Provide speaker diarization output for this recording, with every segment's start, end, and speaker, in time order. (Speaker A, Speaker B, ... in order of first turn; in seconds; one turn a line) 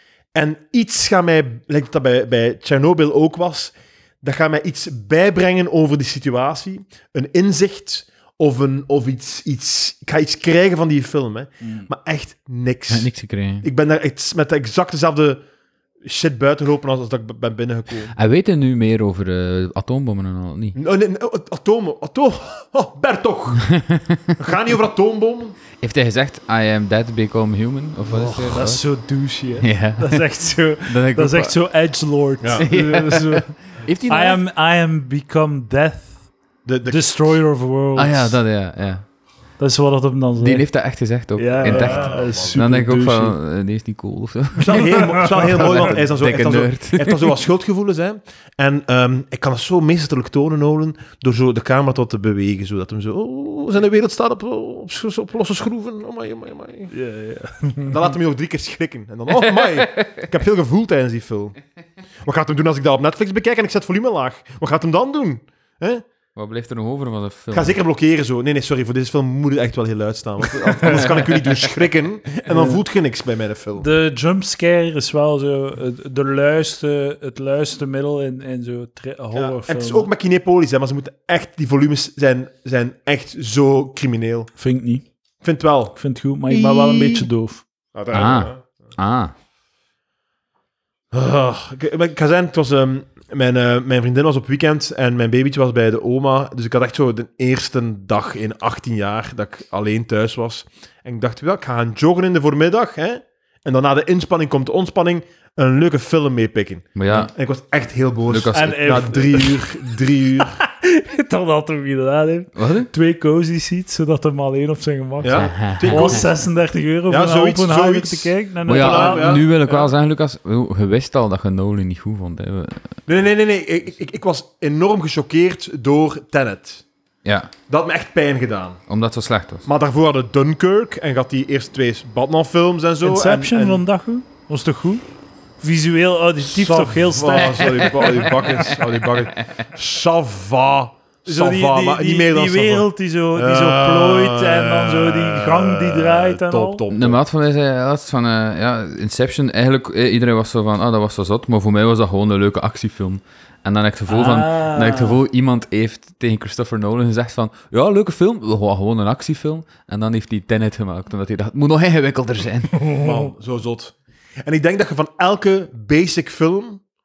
Speaker A: 0.3-13.1
Speaker B: 12.9-13.7
Speaker A: 13.6-15.4
Speaker A: 16.0-18.1
Speaker B: 18.1-20.8
Speaker A: 20.7-23.7
Speaker B: 23.7-24.3
Speaker A: 24.4-25.6
Speaker B: 25.8-28.8
Speaker C: 28.1-36.2
Speaker B: 29.6-30.3
Speaker B: 30.9-31.6
Speaker A: 32.4-32.7
Speaker B: 32.6-34.4
Speaker A: 36.6-37.4
Speaker C: 36.9-38.4
Speaker B: 38.0-39.0
Speaker C: 39.6-40.7
Speaker B: 40.4-47.3
Speaker C: 41.4-43.4
Speaker A: 41.6-42.6
Speaker A: 44.5-56.9
Speaker C: 44.9-45.6
Speaker C: 56.9-58.0
Speaker A: 57.8-61.6
Speaker B: 59.3-60.2
Speaker A: 62.2-66.0
Speaker B: 66.3-67.8
Speaker A: 67.5-73.9
Speaker C: 72.5-72.8
Speaker C: 73.8-80.1
Speaker A: 79.3-84.5
Speaker C: 84.6-85.0
Speaker A: 85.4-86.0
Speaker C: 86.0-87.6
Speaker A: 86.5-87.3
Speaker A: 87.9-88.6
Speaker B: 88.1-89.3
Speaker A: 91.1-110.6
Speaker B: 106.9-107.3
Speaker B: 108.3-109.1
Speaker C: 108.5-109.7
Speaker C: 110.3-119.4
Speaker B: 112.5-112.9
Speaker A: 115.2-116.3
Speaker B: 115.3-116.3
Speaker A: 117.1-119.9
Speaker B: 118.7-123.0
Speaker A: 123.0-126.8
Speaker B: 127.2-127.5
Speaker A: 127.7-128.8
Speaker B: 128.9-129.7
Speaker A: 129.6-133.8
Speaker C: 133.0-135.0
Speaker C: 135.6-138.3
Speaker A: 136.4-147.2
Speaker B: 138.4-139.1
Speaker C: 141.3-146.8
Speaker B: 146.9-162.9
Speaker C: 154.1-155.2
Speaker A: 162.9-166.8